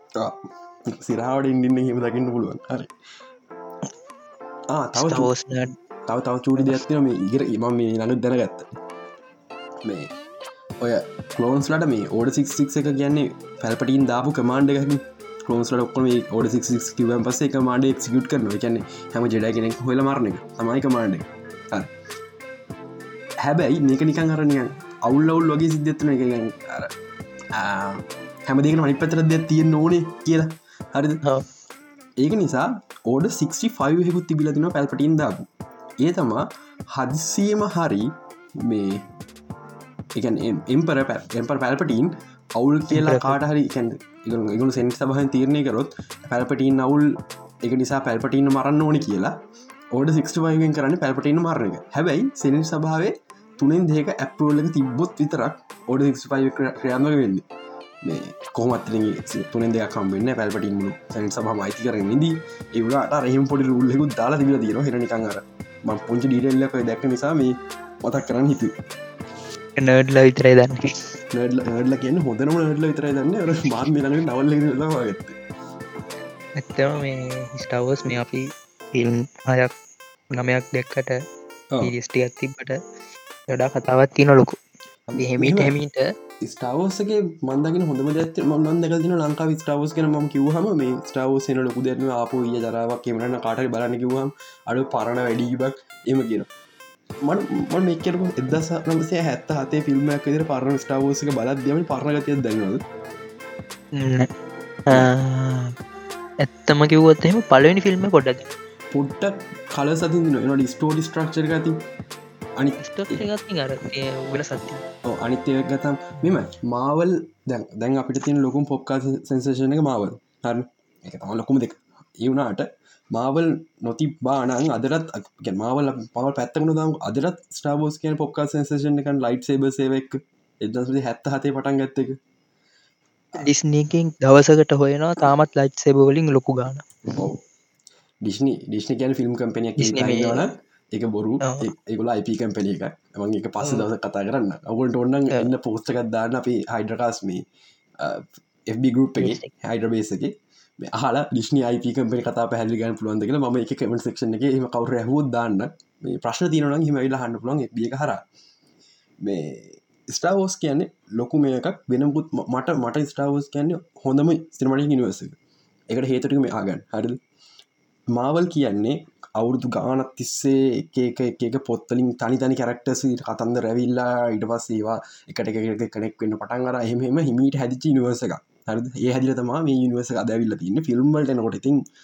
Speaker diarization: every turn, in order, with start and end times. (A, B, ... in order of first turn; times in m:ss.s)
0:00.2-0:02.9 A
0:04.7-0:05.3 A
0:04.9-0:05.7 B
0:06.1-0:08.6 A
0:09.8-0:10.1 A
0:10.8-0:21.9 A
0:23.4-0:26.9 A
0:27.5-0:31.2 A
0:32.2-0:35.5 A
0:36.0-0:39.0 A
0:40.1-0:49.3 A
0:42.9-0:43.4 B
0:49.9-0:57.4 A
0:58.0-1:08.7 A
1:09.8-1:10.8 B
1:11.3-1:15.4 A
1:16.6-1:19.7 B
1:20.3-1:21.2 B
1:21.8-1:22.8 B
1:23.5-1:24.6 B
1:25.1-1:26.0 B
1:25.2-1:25.7 A
1:26.4-1:36.5 A
1:37.2-1:42.8 A
1:44.0-1:44.3 B
1:44.9-1:45.7 B
1:46.4-1:48.5 B
1:48.9-1:51.8 A
1:52.6-1:53.2 A
1:52.8-1:54.8 B
1:55.0-2:12.2 A
2:13.4-2:17.2 B
2:18.2-2:27.4 A
2:19.8-2:20.4 B
2:21.4-2:21.7 B
2:23.6-2:23.9 B
2:28.0-2:38.2 A
2:29.2-2:29.5 B
2:39.2-2:45.4 A
2:45.9-2:47.2 A
2:48.1-3:01.8 A